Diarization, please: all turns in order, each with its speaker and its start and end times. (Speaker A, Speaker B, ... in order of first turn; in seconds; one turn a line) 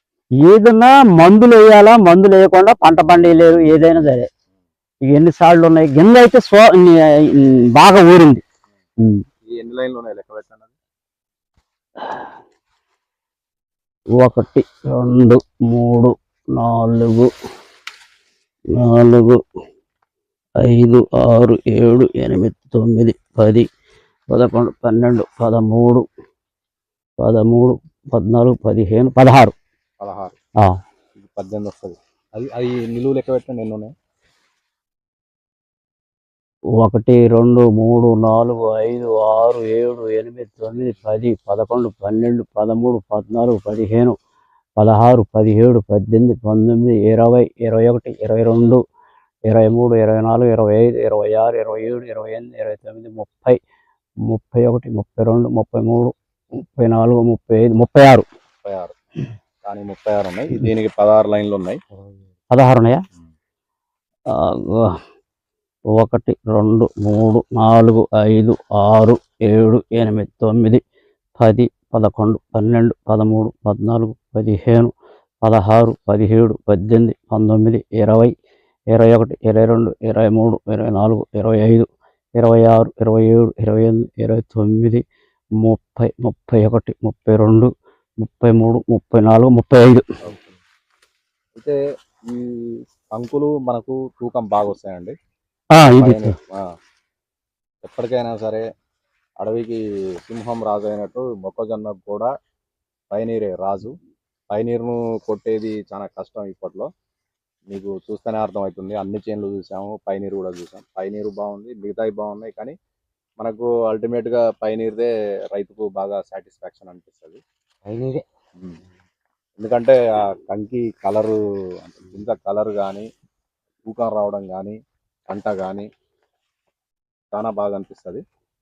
Speaker A: 0.4-4.3
Speaker A: 5.1-8.4
Speaker B: 9.5-10.7
Speaker A: 14.2-17.3
Speaker A: 18.8-19.4
Speaker A: 20.8-23.7
Speaker A: 24.3-26.1
Speaker A: 27.2-29.5
Speaker B: 30.0-30.3
Speaker B: 31.2-33.9
Speaker A: 36.8-44.1
Speaker A: 44.8-48.8
Speaker A: 49.5-53.6
Speaker A: 54.3-58.2
Speaker B: 58.6-59.0
Speaker B: 59.6-61.8
Speaker A: 62.5-63.0
Speaker A: 64.3-65.0
Speaker A: 66.0-70.8
Speaker A: 71.4-74.9
Speaker A: 75.4-78.3
Speaker A: 78.9-81.9
Speaker A: 82.4-85.0
Speaker A: 85.6-87.7
Speaker A: 88.2-90.0
Speaker B: 90.2-90.5
Speaker B: 91.6-95.2
Speaker A: 95.8-96.3
Speaker B: 96.0-96.7
Speaker B: 97.8-98.6
Speaker B: 99.4-102.3
Speaker B: 103.1-104.0
Speaker B: 104.5-106.9
Speaker B: 107.7-112.8
Speaker B: 113.4-117.4
Speaker A: 117.9-118.2
Speaker B: 119.6-123.1
Speaker B: 123.9-124.8
Speaker B: 125.3-125.9
Speaker B: 127.3-128.2